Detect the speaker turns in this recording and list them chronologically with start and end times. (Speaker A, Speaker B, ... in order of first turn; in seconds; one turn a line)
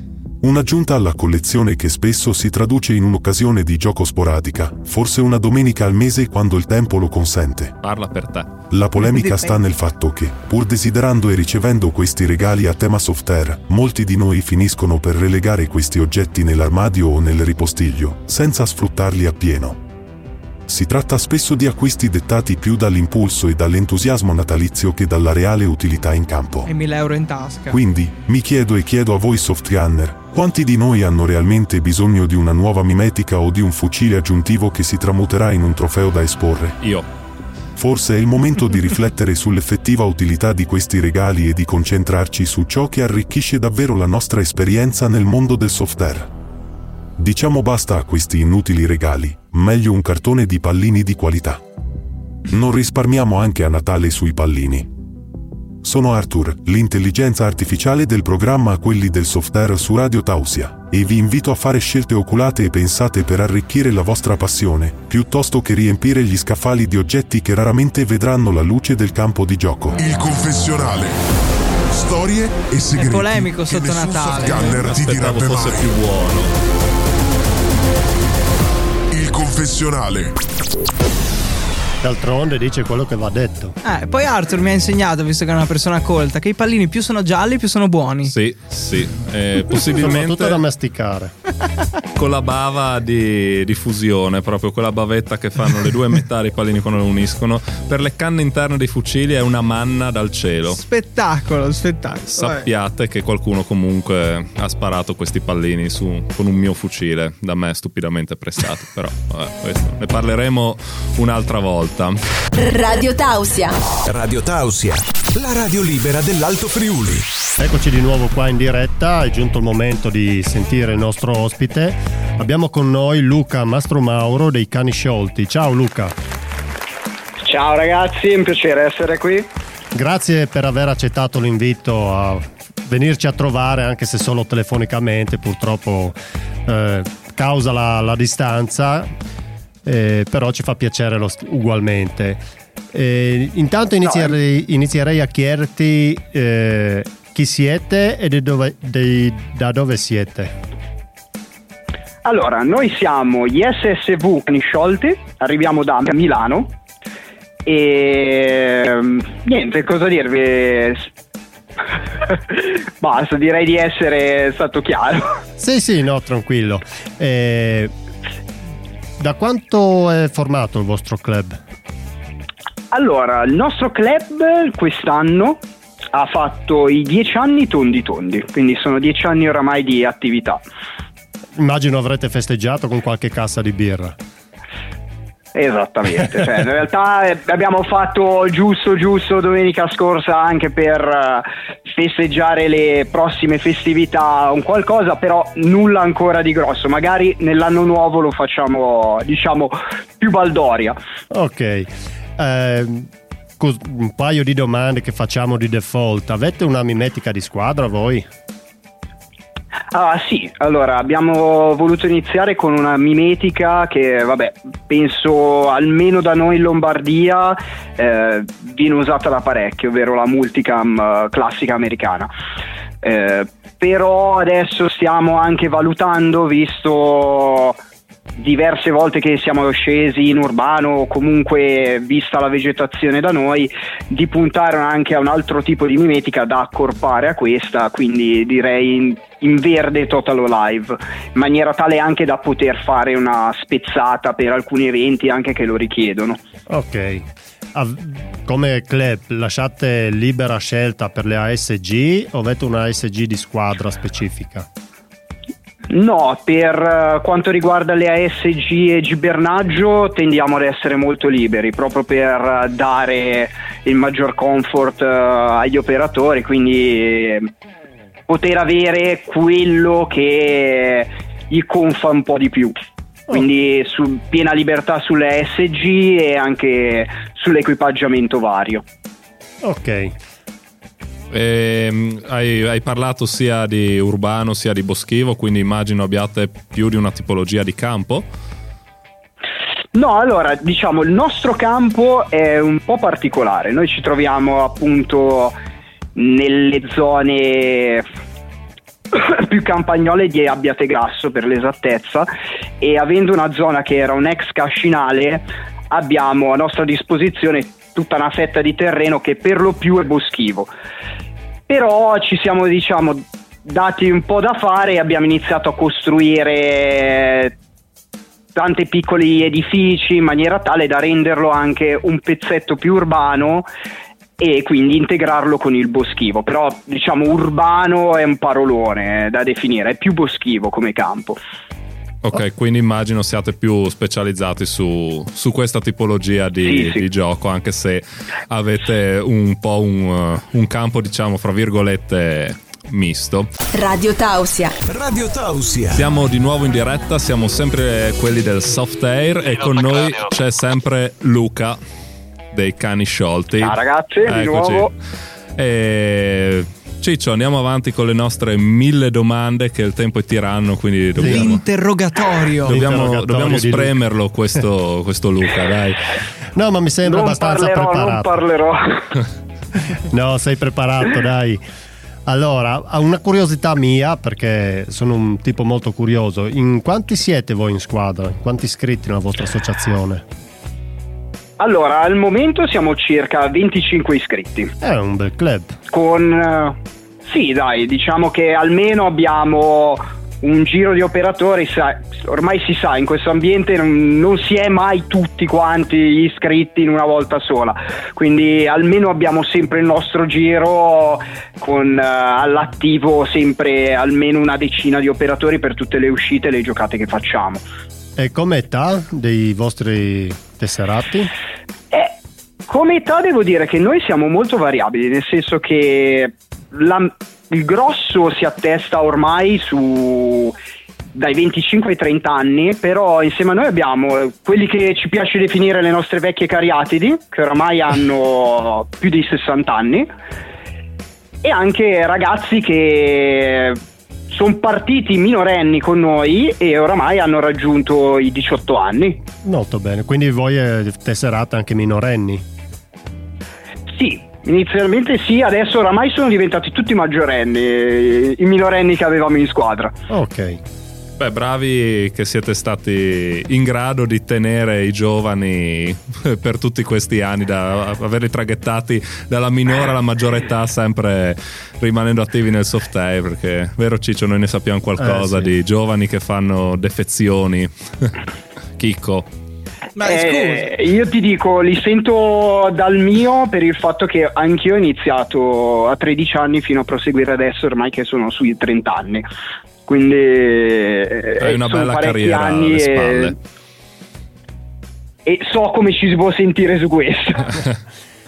Speaker A: 0.4-7.7
Speaker B: 7.8-8.5
Speaker A: 8.7-19.8
Speaker C: 9.0-9.6
Speaker A: 20.7-26.7
Speaker C: 26.6-27.8
Speaker A: 27.7-36.8
Speaker B: 36.8-37.0
Speaker A: 37.8-46.3
Speaker A: 47.2-51.6
Speaker A: 52.5-54.9
Speaker A: 55.8-70.0
Speaker D: 70.0-71.2
Speaker D: 71.9-75.9
Speaker C: 73.0-74.8
Speaker B: 74.8-76.5
Speaker D: 79.1-80.3
Speaker E: 82.0-83.8
Speaker C: 83.8-88.3
Speaker B: 88.2-90.6
Speaker E: 89.9-91.3
Speaker B: 92.1-100.8
Speaker C: 100.7-102.7
Speaker B: 102.3-112.2
Speaker F: 112.5-113.8
Speaker G: 114.0-117.3
Speaker E: 117.6-126.1
Speaker H: 127.4-129.5
Speaker E: 129.9-139.1
Speaker E: 139.8-142.4
Speaker E: 142.9-150.5
Speaker H: 144.0-144.3
Speaker H: 152.2-156.7
Speaker H: 157.6-161.1
Speaker H: 162.2-165.4
Speaker E: 165.6-167.9
Speaker E: 169.2-171.6
Speaker H: 172.9-175.6
Speaker H: 176.1-180.6
Speaker E: 181.6-184.1
Speaker H: 185.5-201.0
Speaker E: 201.3-208.2
Speaker H: 209.9-222.3
Speaker H: 223.0-227.8
Speaker H: 228.4-246.4
Speaker E: 246.7-254.7
Speaker H: 255.9-267.5
Speaker H: 268.3-272.7
Speaker H: 273.3-278.8
Speaker E: 279.6-280.1
Speaker B: 281.3-288.2
Speaker H: 289.9-295.6
Speaker H: 296.1-298.1
Speaker H: 299.1-302.3
Speaker H: 302.8-310.7
Speaker H: 311.7-317.5
Speaker H: 318.5-323.7
Speaker H: 324.4-331.4
Speaker B: 332.2-343.5
Speaker H: 336.6-337.0
Speaker F: 343.7-344.8
Speaker G: 344.9-346.1
Speaker B: 345.9-351.8
Speaker B: 352.5-354.9
Speaker H: 353.6-354.9
Speaker B: 355.6-361.6
Speaker E: 361.2-361.5
Speaker C: 361.2-362.8
Speaker E: 362.6-363.9
Speaker B: 362.6-366.1
Speaker E: 366.5-368.4
Speaker H: 367.0-369.1
Speaker E: 370.0-371.6
Speaker E: 372.2-380.2
Speaker H: 381.6-384.7
Speaker E: 384.8-385.8
Speaker H: 385.9-407.6
Speaker E: 408.2-411.3
Speaker H: 412.7-420.6
Speaker H: 421.1-430.1
Speaker H: 431.4-439.2
Speaker E: 439.4-442.4
Speaker H: 443.9-449.9
Speaker E: 450.1-450.6
Speaker B: 451.2-468.1
Speaker E: 465.0-465.5
Speaker B: 468.8-469.3
Speaker C: 469.9-470.7
Speaker H: 470.0-479.3
Speaker H: 479.9-483.3
Speaker B: 481.4-483.3
Speaker H: 485.2-487.6